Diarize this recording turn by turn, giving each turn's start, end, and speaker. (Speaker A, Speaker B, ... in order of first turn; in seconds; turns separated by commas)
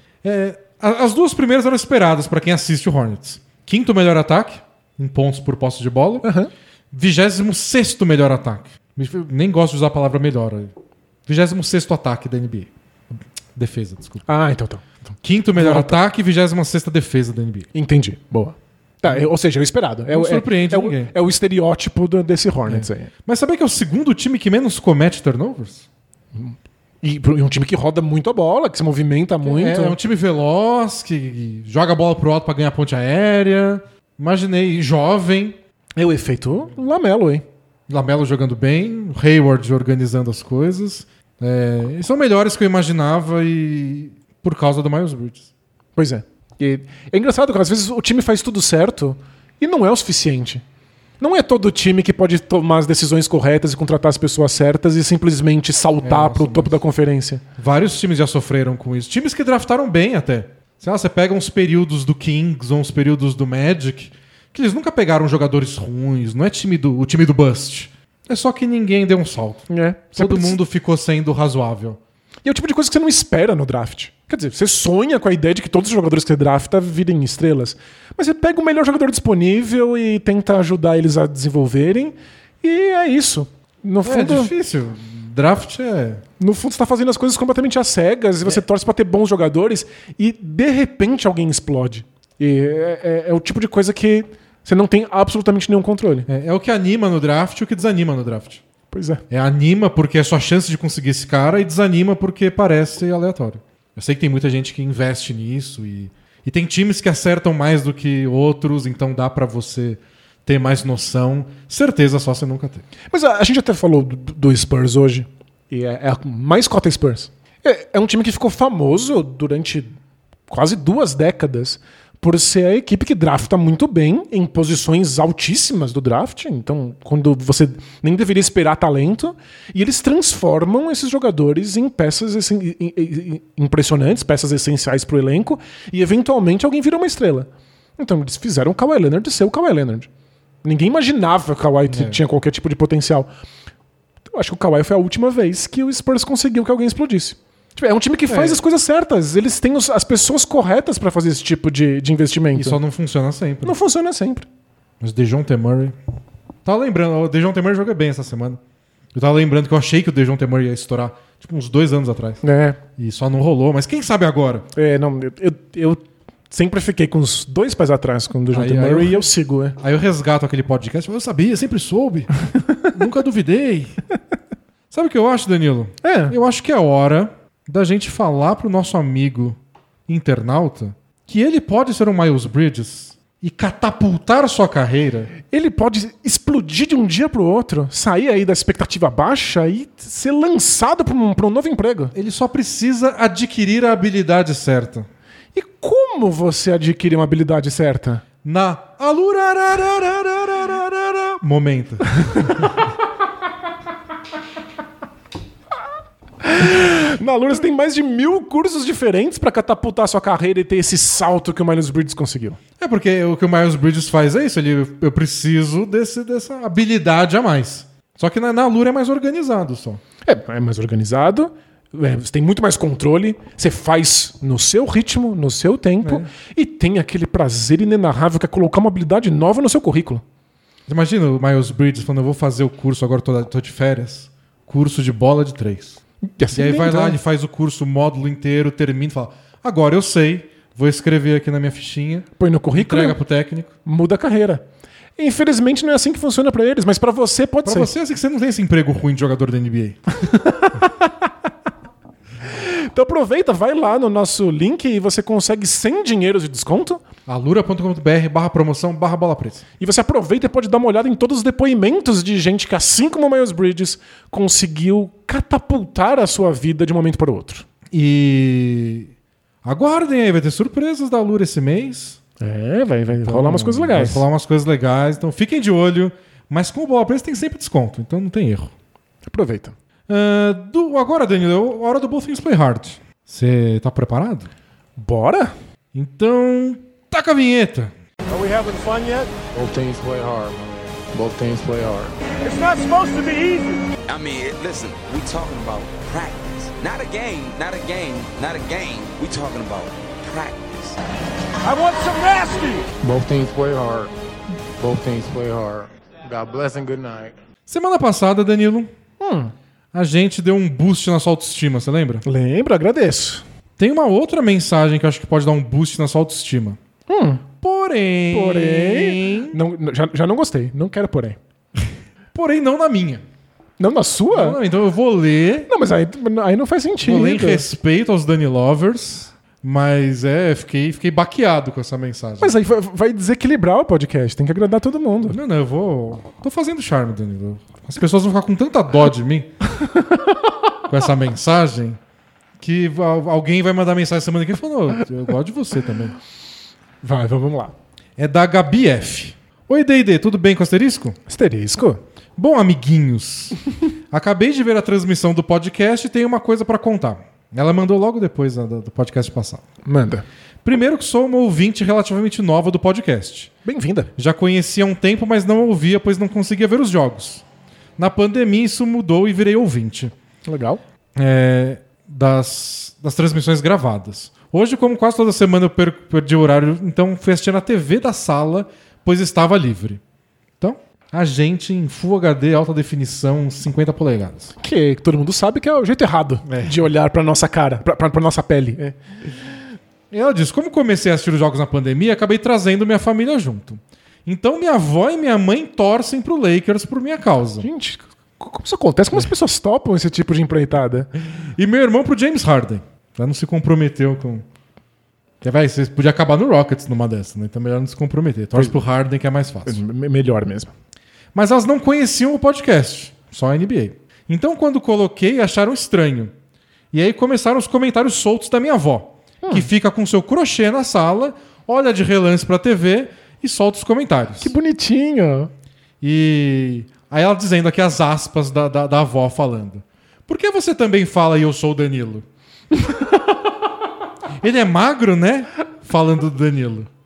Speaker A: 0.2-6.3, Speaker B: 6.2-6.5, Speaker A: 6.9-10.7, Speaker A: 11.3-12.7, Speaker A: 13.6-14.2, Speaker B: 14.3-16.0, Speaker A: 15.2-17.7, Speaker B: 17.7-23.1, Speaker A: 20.1-21.1, Speaker A: 22.7-25.9, Speaker B: 26.4-30.0, Speaker A: 29.4-35.6, Speaker B: 36.0-37.5, Speaker A: 37.9-45.5, Speaker B: 46.0-50.6, Speaker B: 51.2-57.4, Speaker A: 56.0-56.8, Speaker A: 57.6-72.0, Speaker B: 69.7-70.6, Speaker B: 72.5-84.5, Speaker A: 84.0-86.2, Speaker B: 86.4-96.3, Speaker A: 96.3-98.6, Speaker B: 98.9-99.2, Speaker A: 99.3-112.8, Speaker B: 113.1-120.0, Speaker B: 120.5-140.1, Speaker B: 140.6-143.3, Speaker A: 141.9-142.2, Speaker B: 144.3-152.8, Speaker A: 148.3-148.6, Speaker A: 152.5-153.8, Speaker B: 153.6-154.5, Speaker A: 155.0-156.0, Speaker A: 156.7-158.6, Speaker A: 159.1-162.4, Speaker B: 162.4-162.8, Speaker A: 163.0-164.7, Speaker B: 164.8-169.8, Speaker A: 168.5-172.3, Speaker A: 172.8-174.0, Speaker A: 174.9-185.3, Speaker B: 176.0-176.4, Speaker B: 185.5-192.1, Speaker A: 192.1-195.1, Speaker B: 195.6-198.2, Speaker A: 198.4-202.8, Speaker B: 206.4-212.6, Speaker A: 212.8-220.0, Speaker B: 220.2-230.2, Speaker A: 226.0-226.3, Speaker A: 230.9-236.0, Speaker B: 236.4-237.2, Speaker A: 236.5-243.7, Speaker B: 242.4-243.2, Speaker B: 243.8-244.7, Speaker B: 245.2-247.9, Speaker A: 247.7-250.0, Speaker B: 250.3-251.1, Speaker B: 252.5-257.0, Speaker A: 257.3-259.6, Speaker B: 259.8-267.6, Speaker A: 267.9-269.1, Speaker A: 269.6-272.2, Speaker B: 272.4-274.2, Speaker A: 273.2-278.7, Speaker B: 279.3-279.8, Speaker A: 280.1-284.5, Speaker B: 285.0-285.5, Speaker A: 285.9-287.9, Speaker C: 288.3-289.3, Speaker D: 289.5-292.2, Speaker C: 292.4-293.9, Speaker E: 294.1-301.0, Speaker C: 301.6-302.9, Speaker D: 303.0-304.1, Speaker D: 304.8-307.4, Speaker A: 307.7-308.9, Speaker B: 309.2-309.5, Speaker A: 309.9-312.2, Speaker B: 312.2-313.4, Speaker A: 313.8-316.8, Speaker B: 317.1-317.4, Speaker A: 317.6-319.6, Speaker B: 318.3-321.4, Speaker A: 322.3-323.2, Speaker B: 323.8-324.6, Speaker A: 324.3-325.7, Speaker B: 325.7-327.6, Speaker A: 327.0-332.6, Speaker B: 332.4-335.4, Speaker A: 335.3-339.6, Speaker A: 340.9-342.0, Speaker A: 342.6-346.2, Speaker B: 347.0-347.7, Speaker A: 348.2-351.2, Speaker B: 351.3-352.0, Speaker A: 352.4-353.6, Speaker A: 354.1-359.6, Speaker B: 359.9-360.2, Speaker A: 360.6-363.5, Speaker B: 363.6-364.1, Speaker A: 364.2-367.4, Speaker A: 368.0-370.1, Speaker B: 370.5-370.8, Speaker A: 371.2-380.0, Speaker A: 380.6-384.5, Speaker B: 384.6-389.0, Speaker A: 386.5-386.9, Speaker A: 390.1-397.7, Speaker B: 397.6-401.1, Speaker A: 401.4-404.4, Speaker A: 405.4-409.8, Speaker B: 408.5-408.8, Speaker B: 409.7-410.7, Speaker A: 411.3-416.3, Speaker A: 416.9-424.5, Speaker B: 419.4-419.7, Speaker B: 424.4-425.5, Speaker A: 426.0-432.3, Speaker A: 434.4-436.9